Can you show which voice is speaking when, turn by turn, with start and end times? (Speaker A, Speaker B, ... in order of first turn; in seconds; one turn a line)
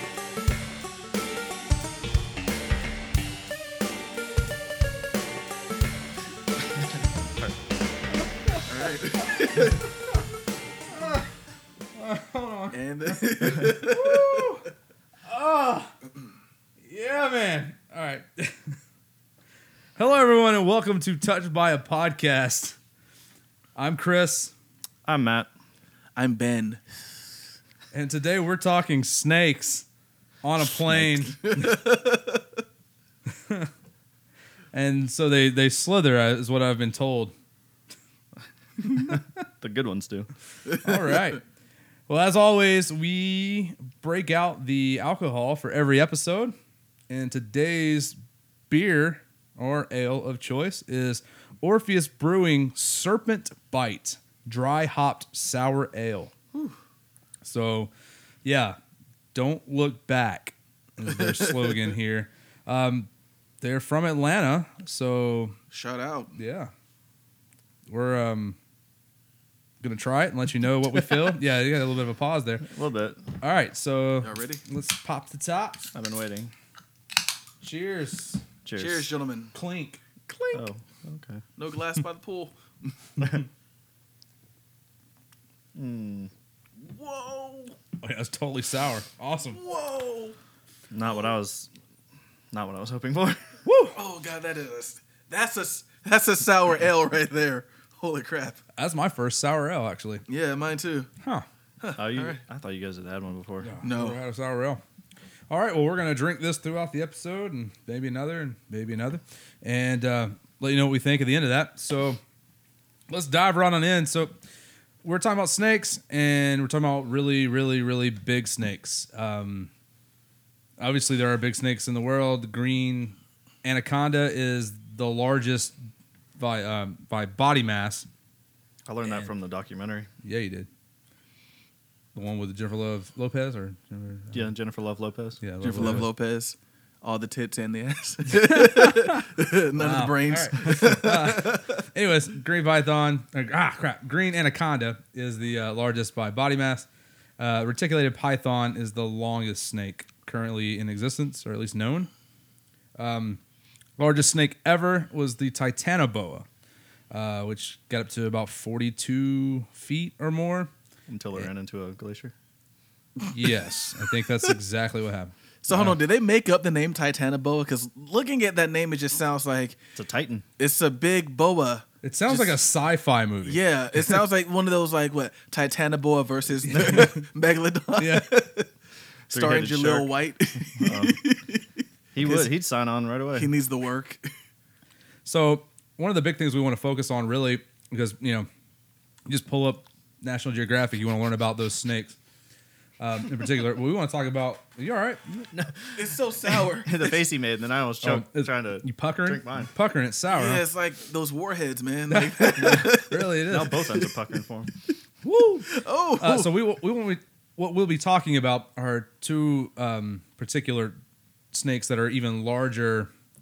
Speaker A: 8.6-9.8
Speaker B: 9.3-9.8
Speaker B: 10.9-11.2
Speaker B: 11.9-14.6
Speaker A: 12.7-14.6
Speaker B: 15.2-15.9
Speaker B: 16.9-18.8
Speaker B: 20.0-22.8
Speaker B: 23.8-24.5
Speaker C: 25.1-25.5
Speaker A: 26.2-26.8
Speaker B: 27.9-29.9
Speaker B: 30.4-31.8
Speaker A: 31.3-32.4
Speaker B: 33.3-33.7
Speaker B: 34.7-37.3
Speaker C: 39.0-40.3
Speaker A: 40.7-41.4
Speaker B: 40.8-41.4
Speaker B: 42.1-46.5
Speaker B: 47.1-48.2
Speaker B: 48.7-56.3
Speaker B: 57.4-57.9
Speaker B: 58.4-58.8
Speaker B: 59.3-63.1
Speaker B: 63.6-65.5
Speaker A: 65.7-66.3
Speaker B: 66.3-66.7
Speaker B: 67.9-68.6
Speaker B: 69.8-72.7
Speaker C: 72.7-73.2
Speaker B: 73.4-75.8
Speaker A: 74.2-74.6
Speaker C: 75.9-76.5
Speaker B: 77.6-78.4
Speaker C: 78.6-79.1
Speaker A: 78.8-79.5
Speaker B: 79.5-80.0
Speaker A: 80.3-80.7
Speaker C: 80.5-81.4
Speaker A: 81.6-82.9
Speaker C: 83.2-83.4
Speaker C: 85.7-86.3
Speaker A: 86.8-87.8
Speaker B: 88.0-89.6
Speaker A: 89.5-90.3
Speaker C: 90.9-91.7
Speaker C: 92.5-93.4
Speaker B: 93.6-94.0
Speaker A: 93.9-98.6
Speaker B: 98.8-100.2
Speaker A: 100.3-101.1
Speaker B: 101.2-101.5
Speaker A: 101.8-102.4
Speaker C: 102.0-103.7
Speaker B: 103.6-104.8
Speaker A: 103.8-104.2
Speaker B: 105.5-112.2
Speaker B: 113.1-114.3
Speaker B: 115.0-119.7
Speaker B: 120.8-125.8
Speaker B: 126.4-128.1
Speaker C: 128.8-130.1
Speaker B: 130.2-130.7
Speaker B: 132.1-134.5
Speaker C: 134.3-135.4
Speaker B: 135.4-136.1
Speaker A: 135.6-141.8
Speaker B: 138.3-146.9
Speaker B: 147.4-152.1
Speaker B: 153.0-153.4
Speaker B: 154.0-156.4
Speaker B: 157.1-160.7
Speaker C: 161.1-162.3
Speaker B: 163.3-166.0
Speaker A: 165.6-169.8
Speaker C: 169.9-170.4
Speaker A: 170.6-172.6
Speaker B: 172.0-174.1
Speaker A: 173.4-178.7
Speaker B: 176.7-177.2
Speaker B: 178.0-178.3
Speaker A: 179.3-182.5
Speaker C: 179.3-180.1
Speaker C: 180.7-181.2
Speaker C: 182.1-183.5
Speaker A: 183.3-184.2
Speaker B: 185.2-188.5
Speaker B: 189.3-192.2
Speaker B: 193.0-195.5
Speaker C: 195.5-195.9
Speaker A: 195.9-197.2
Speaker C: 196.8-199.7
Speaker B: 198.0-200.6
Speaker A: 200.3-204.1
Speaker B: 202.1-203.9
Speaker C: 203.4-204.7
Speaker B: 205.2-210.9
Speaker A: 205.7-206.5
Speaker B: 211.5-213.1